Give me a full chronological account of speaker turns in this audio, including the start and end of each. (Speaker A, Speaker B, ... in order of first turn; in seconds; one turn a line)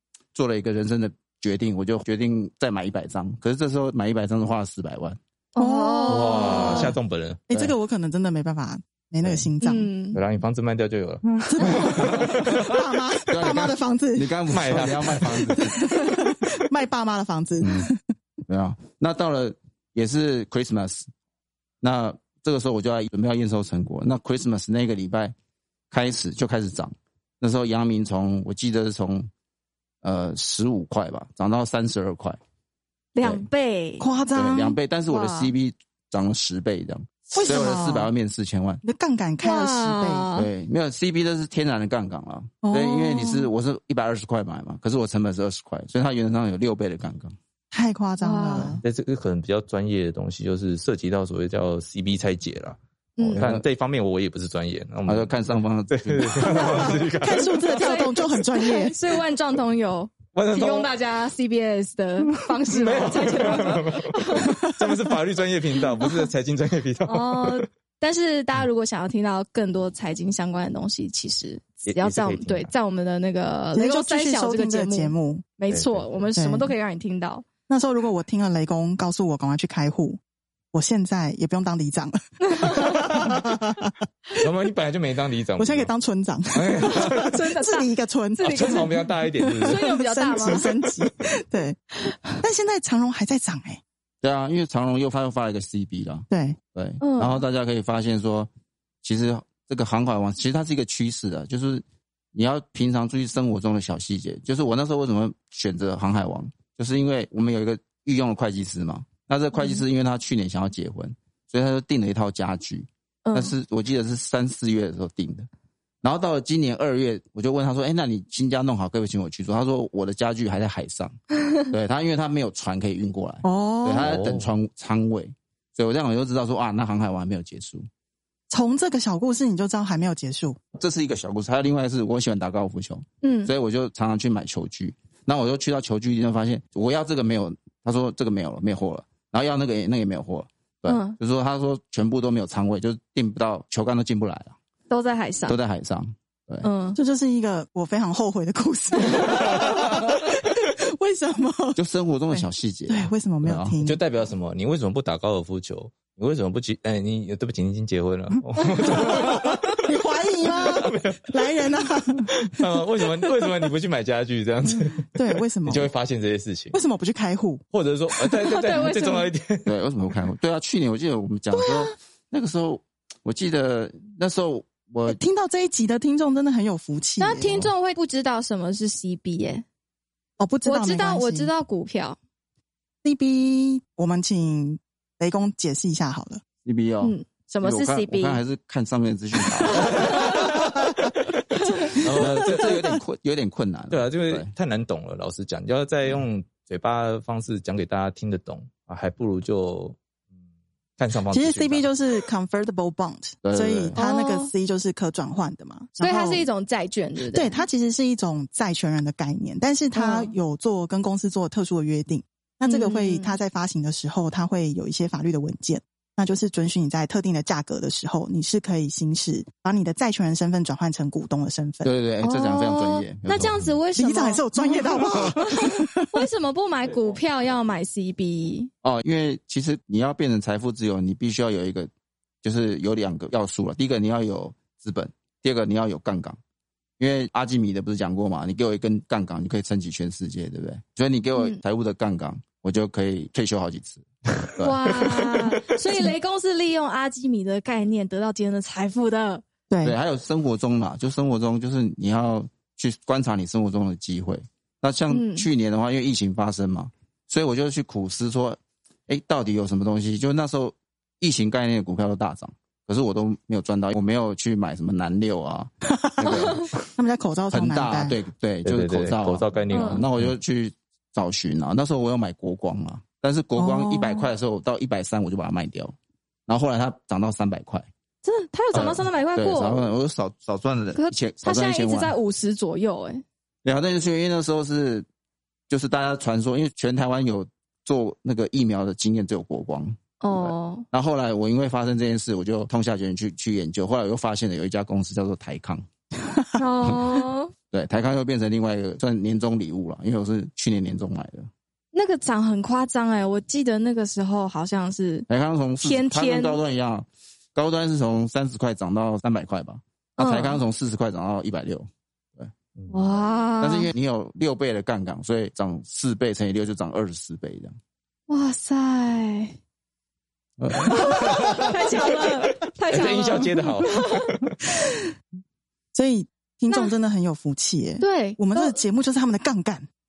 Speaker A: 0.3-5.2
Speaker B: 5.5-6.9
Speaker C: 5.6-6.9
Speaker D: 6.1-7.4
Speaker A: 6.4-7.0
Speaker C: 7.5-9.9
Speaker B: 9.6-10.2
Speaker D: 10.1-12.8
Speaker C: 11.3-14.3
Speaker A: 13.3-16.0
Speaker D: 14.5-15.6
Speaker C: 15.2-18.0
Speaker A: 17.6-17.9
Speaker A: 18.5-21.1
Speaker A: 21.8-25.3
Speaker A: 25.9-29.3
Speaker A: 30.0-32.4
Speaker B: 33.1-34.1
Speaker A: 33.2-33.5
Speaker C: 34.0-34.8
Speaker A: 34.3-38.8
Speaker B: 35.1-35.5
Speaker C: 37.3-38.1
Speaker C: 38.8-40.3
Speaker B: 39.4-40.5
Speaker A: 40.3-47.3
Speaker C: 42.6-43.5
Speaker C: 47.7-48.8
Speaker B: 48.2-48.8
Speaker D: 48.8-52.8
Speaker B: 53.2-53.4
Speaker A: 53.2-53.6
Speaker D: 53.3-58.0
Speaker A: 55.0-56.9
Speaker C: 56.5-59.0
Speaker B: 57.8-64.7
Speaker D: 60.3-60.9
Speaker D: 62.7-67.6
Speaker B: 67.0-77.4
Speaker D: 71.9-72.7
Speaker C: 73.7-75.5
Speaker D: 75.7-76.2
Speaker C: 76.3-76.7
Speaker C: 77.7-80.2
Speaker C: 80.7-83.9
Speaker B: 82.4-83.3
Speaker D: 84.4-85.9
Speaker C: 85.6-91.8
Speaker D: 86.5-87.4
Speaker B: 86.9-88.9
Speaker D: 88.4-89.8
Speaker B: 89.6-90.9
Speaker C: 92.4-93.8
Speaker A: 94.2-98.5
Speaker C: 96.3-96.6
Speaker B: 97.0-97.4
Speaker A: 99.0-101.8
Speaker A: 102.3-115.5
Speaker B: 113.2-113.5
Speaker A: 116.0-121.1
Speaker A: 121.7-127.8
Speaker C: 123.4-124.1
Speaker D: 124.0-124.5
Speaker C: 128.5-130.6
Speaker A: 130.7-144.5
Speaker B: 133.2-133.5
Speaker B: 140.8-141.2
Speaker B: 144.9-145.6
Speaker A: 145.4-146.7
Speaker B: 146.6-147.0
Speaker C: 146.9-151.8
Speaker A: 151.8-153.8
Speaker C: 152.3-154.0
Speaker D: 153.8-159.7
Speaker C: 158.8-162.5
Speaker D: 160.4-161.4
Speaker D: 162.3-166.8
Speaker C: 165.1-165.9
Speaker C: 166.7-167.6
Speaker D: 167.7-169.7
Speaker B: 168.4-169.3
Speaker A: 169.7-175.2
Speaker C: 175.1-177.7
Speaker B: 177.2-179.6
Speaker C: 180.4-181.5
Speaker B: 180.6-182.2
Speaker C: 183.0-186.4
Speaker A: 186.6-190.1
Speaker B: 187.0-188.4
Speaker B: 189.7-190.5
Speaker D: 189.8-190.7
Speaker D: 191.9-192.8
Speaker A: 192.1-194.5
Speaker D: 193.9-200.0
Speaker D: 201.0-201.9
Speaker C: 201.3-206.4
Speaker A: 203.4-203.9
Speaker B: 203.9-204.5
Speaker B: 206.0-207.6
Speaker C: 207.3-221.9
Speaker B: 209.9-210.3
Speaker B: 212.6-213.3
Speaker A: 221.8-223.7
Speaker B: 222.2-228.7
Speaker C: 223.9-226.2
Speaker A: 228.8-231.9
Speaker A: 232.4-236.4
Speaker A: 237.0-245.5
Speaker B: 244.6-249.4
Speaker C: 249.7-249.9
Speaker A: 249.8-266.7
Speaker B: 255.1-255.5
Speaker C: 266.0-268.2
Speaker A: 267.5-275.9
Speaker D: 268.6-270.3
Speaker B: 269.7-270.0
Speaker C: 273.6-274.3
Speaker A: 276.5-277.9
Speaker B: 278.2-279.9
Speaker A: 278.7-282.1
Speaker B: 280.9-283.2
Speaker A: 283.6-285.0
Speaker A: 285.7-295.8
Speaker B: 290.2-290.8
Speaker B: 296.6-297.5
Speaker A: 297.7-301.5
Speaker B: 301.9-305.3
Speaker A: 305.3-312.5
Speaker B: 305.8-306.6
Speaker B: 310.2-310.6
Speaker B: 312.9-313.9
Speaker A: 313.6-317.7
Speaker B: 318.3-319.6
Speaker A: 320.6-321.7
Speaker B: 320.8-324.7
Speaker D: 321.2-321.6
Speaker D: 322.9-324.3
Speaker C: 325.9-329.9
Speaker B: 328.0-328.8